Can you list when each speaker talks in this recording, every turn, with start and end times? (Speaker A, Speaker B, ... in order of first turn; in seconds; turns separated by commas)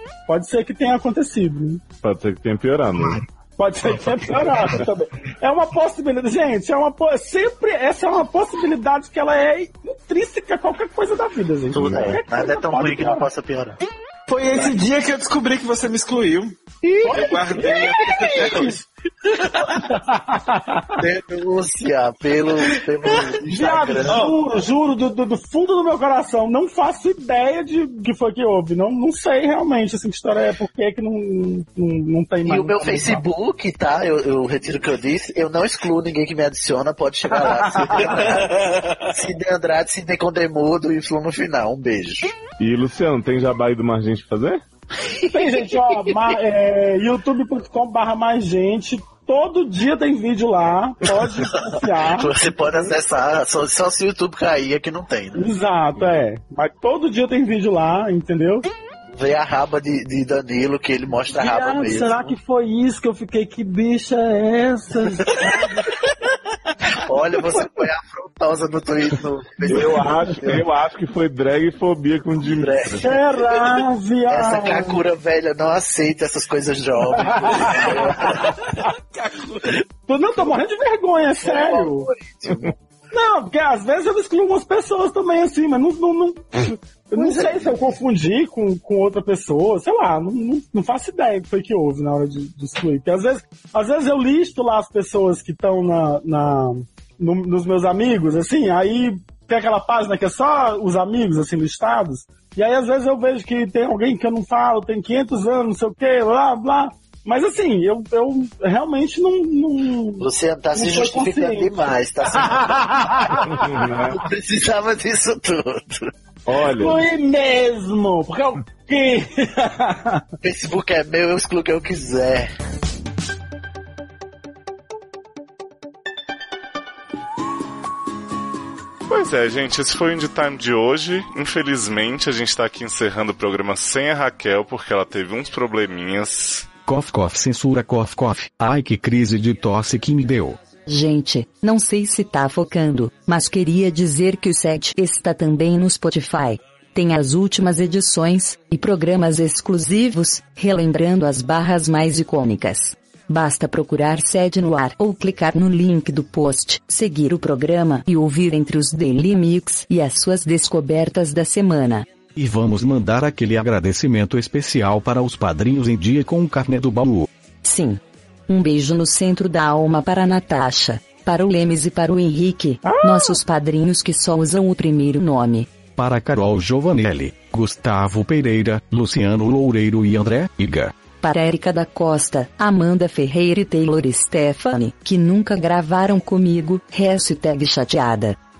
Speaker A: 0.3-1.8, Speaker B: 2.0-3.2, Speaker A: 3.6-13.2, Speaker C: 11.7-13.8, Speaker B: 11.8-12.2, Speaker D: 14.3-18.8, Speaker C: 16.8-18.7, Speaker A: 17.0-18.8, Speaker A: 19.9-21.0, Speaker C: 21.0-24.2, Speaker A: 23.4-33.2, Speaker D: 24.1-24.4, Speaker C: 32.5-42.3, Speaker A: 37.3-38.4, Speaker D: 38.4-38.7, Speaker B: 42.6-44.6, Speaker C: 45.0-46.1, Speaker A: 45.3-52.9, Speaker C: 52.0-55.5, Speaker A: 55.3-58.7, Speaker C: 59.1-62.3, Speaker A: 61.3-65.9, Speaker C: 65.4-65.7, Speaker C: 67.0-70.7, Speaker B: 69.7-73.1, Speaker C: 72.4-73.4, Speaker A: 73.0-75.0, Speaker C: 74.3-78.6, Speaker A: 77.1-78.5, Speaker D: 78.9-79.8, Speaker A: 80.0-82.1, Speaker C: 81.4-82.7, Speaker A: 83.1-111.7, Speaker C: 87.1-87.9, Speaker C: 110.2-116.1, Speaker A: 112.2-113.6, Speaker B: 113.5-114.2, Speaker B: 116.5-117.0, Speaker A: 116.7-120.2, Speaker C: 120.4-122.5, Speaker E: 129.1-136.7, Speaker F: 136.8-140.6, Speaker G: 140.8-162.1, Speaker F: 162.3-167.3, Speaker G: 167.6-175.7, Speaker B: 172.8-173.4, Speaker F: 175.9-180.9, Speaker G: 181.2-188.4